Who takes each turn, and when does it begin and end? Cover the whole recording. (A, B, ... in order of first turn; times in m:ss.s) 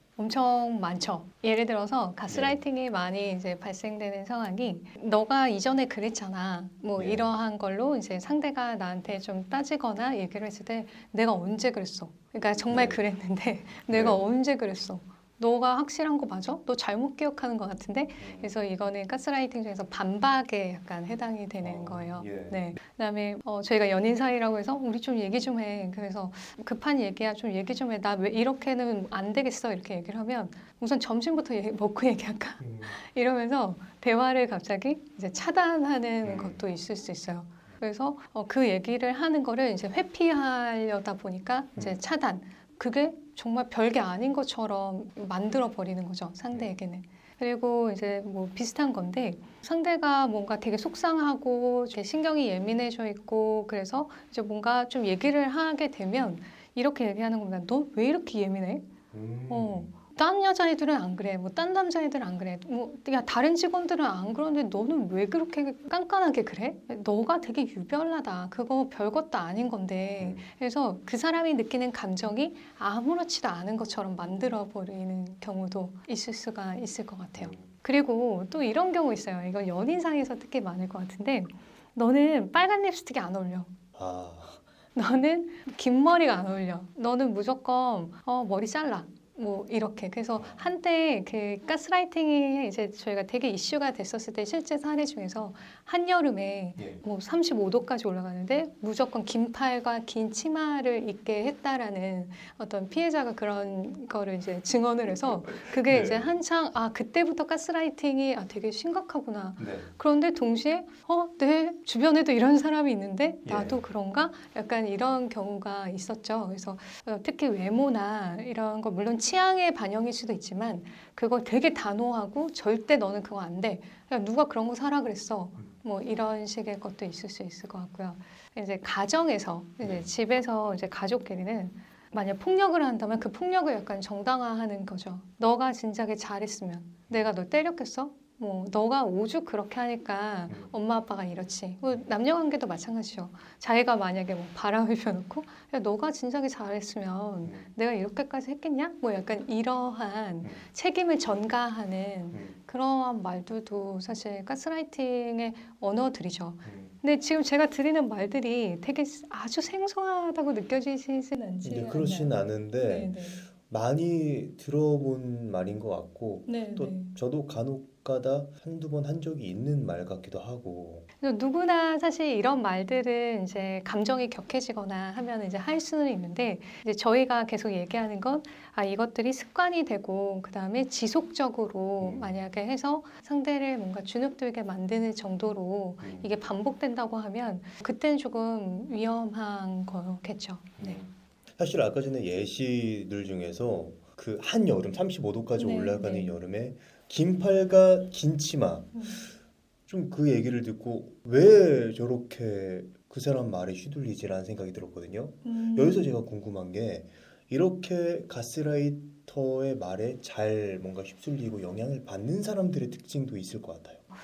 0:00.2-0:58.9 A
0:02.3-0:02.6 B
0:07.0-0:07.3 B
0:12.7-0:13.0 B
0:13.9-0:14.2 B
0:18.2-0:18.5 B
0:21.6-0:22.6 B
0:32.6-0:32.9 B
0:36.2-0:36.6 B
0:59.1-0:59.9 B
0:59.5-1:23.7 A
1:10.2-1:10.5 B
1:17.4-1:17.7 B
1:24.0-1:24.6 B
1:25.0-2:43.5 A
1:45.3-1:46.4 B
1:49.6-1:49.9 B
1:53.4-1:53.8 B
2:09.8-2:10.1 B
2:27.4-2:27.7 B
2:32.3-2:32.6 B
2:36.6-2:36.9 B
2:41.6-2:51.1 B
2:46.5-2:47.2 A
2:51.2-3:11.0 A
3:02.0-3:02.3 B
3:06.0-3:06.3 B
3:10.8-3:19.0 B
3:15.6-3:16.3 A
3:18.9-3:19.3 A
3:19.9-3:34.0 B
3:25.4-3:26.1 A